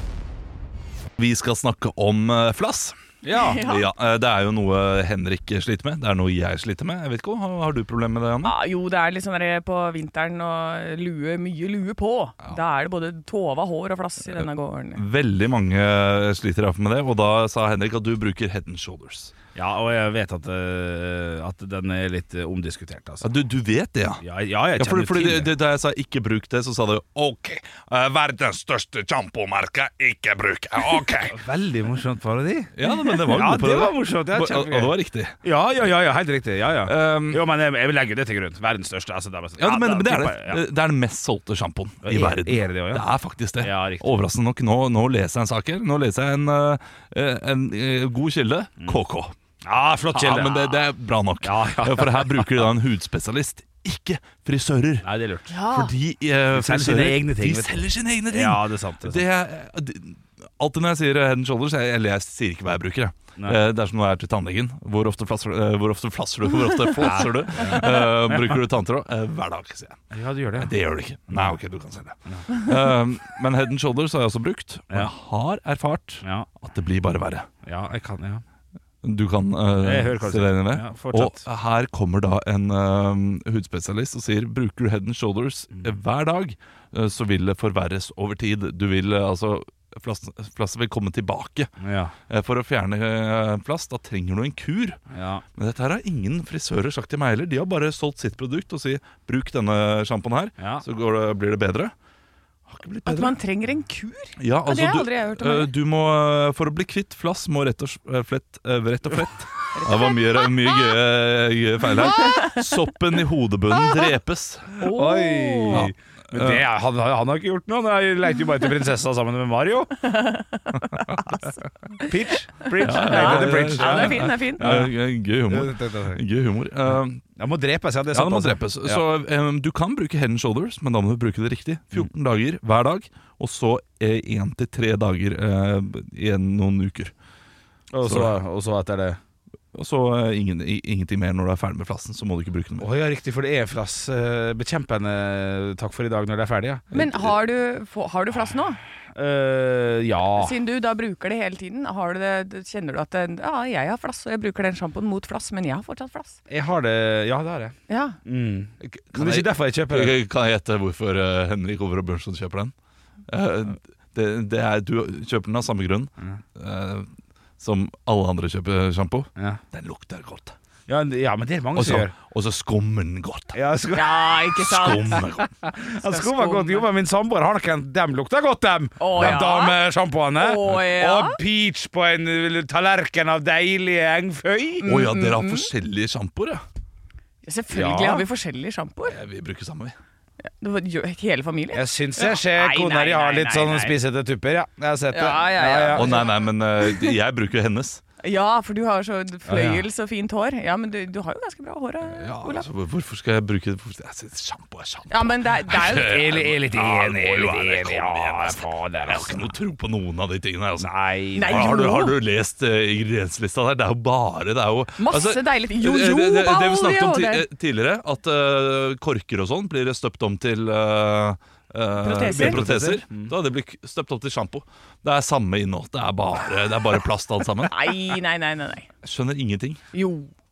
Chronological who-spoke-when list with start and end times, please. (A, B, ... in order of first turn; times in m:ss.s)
0:01.2-0:03.0 A
0:03.2-0:03.6 B
0:03.3-0:03.9 C
0:03.5-0:08.5 A
0:08.4-0:15.0 C
0:14.3-0:19.3 A
0:19.5-0:23.3 B
0:23.2-0:24.2 A
0:24.2-0:25.5 B
0:24.8-0:31.4 A
0:31.2-0:40.6 B
0:32.8-0:35.4 A
0:36.8-0:37.4 A
0:39.6-0:49.3 A
0:42.0-0:43.1 B
0:43.6-0:44.2 B
0:49.6-0:50.8 B
0:50.1-0:55.1 A
0:51.4-0:52.6 B
0:55.0-0:55.5 B
0:55.5-0:55.9 C
0:55.7-1:10.0 A
0:56.5-0:59.2 B
1:07.0-1:08.6 B
1:10.1-1:10.7 B
1:10.6-1:17.5 A
1:11.3-1:11.5 B
1:16.2-1:16.5 B
1:17.6-1:18.4 B
1:19.0-1:31.7 A
1:19.8-1:21.4 B
1:31.8-1:32.1 B
1:32.3-1:35.0 A
1:35.1-1:35.4 B
1:35.6-1:41.9 A
1:40.6-1:40.8 B
1:42.7-1:43.4 A
1:43.0-1:45.7 C
1:44.4-1:54.9 A
1:49.7-1:50.9 C
1:51.9-1:52.6 C
1:53.7-1:54.1 C
1:54.8-1:55.9 C
1:54.8-2:00.1 B
1:55.7-1:56.6 A
2:00.1-2:01.1 C
2:01.1-2:01.3 A
2:02.0-2:04.9 B
2:02.7-2:04.7 C
2:02.8-2:07.2 A
2:05.5-2:06.2 B
2:06.9-2:09.0 B
2:08.1-2:17.1 A
2:17.9-2:19.2 B
2:18.0-2:18.4 A
2:19.7-2:22.9 A
2:22.8-2:26.9 B
2:26.9-2:27.3 A
2:26.9-2:28.8 C
2:29.1-2:30.6 B
2:30.4-2:36.4 C
2:36.5-2:40.2 B
2:37.9-2:38.2 C
2:38.8-2:42.7 A
2:43.3-2:47.1 A
2:47.6-2:50.5 A
2:50.9-2:52.1 B
2:51.7-2:53.6 A
2:53.5-2:54.6 B
2:53.9-2:55.2 C
2:54.6-2:55.5 A
2:55.6-3:04.9 B
2:56.0-2:56.8 C
2:59.0-2:59.8 C
2:59.1-2:59.4 A
3:00.4-3:01.4 C
3:04.8-3:05.7 C
3:04.8-3:06.6 A
3:07.4-3:09.2 C
3:07.7-3:08.3 B
3:09.0-3:09.9 A
3:10.6-3:14.0 C
3:11.7-3:16.2 B
3:15.1-3:16.3 C
3:15.9-3:18.0 A
3:16.9-3:17.1 C
3:18.2-3:22.6 C
3:19.5-3:19.8 B
3:22.0-3:30.9 A
3:25.1-3:26.3 C
3:25.9-3:29.5 B
3:30.8-3:31.9 B
3:31.3-3:32.1 C
3:31.4-3:47.9 A
3:35.0-3:37.4 C
3:42.0-3:42.7 C
3:42.2-3:43.3 B
3:47.7-3:48.9 C
3:49.0-3:49.8 A
3:49.9-3:50.3 C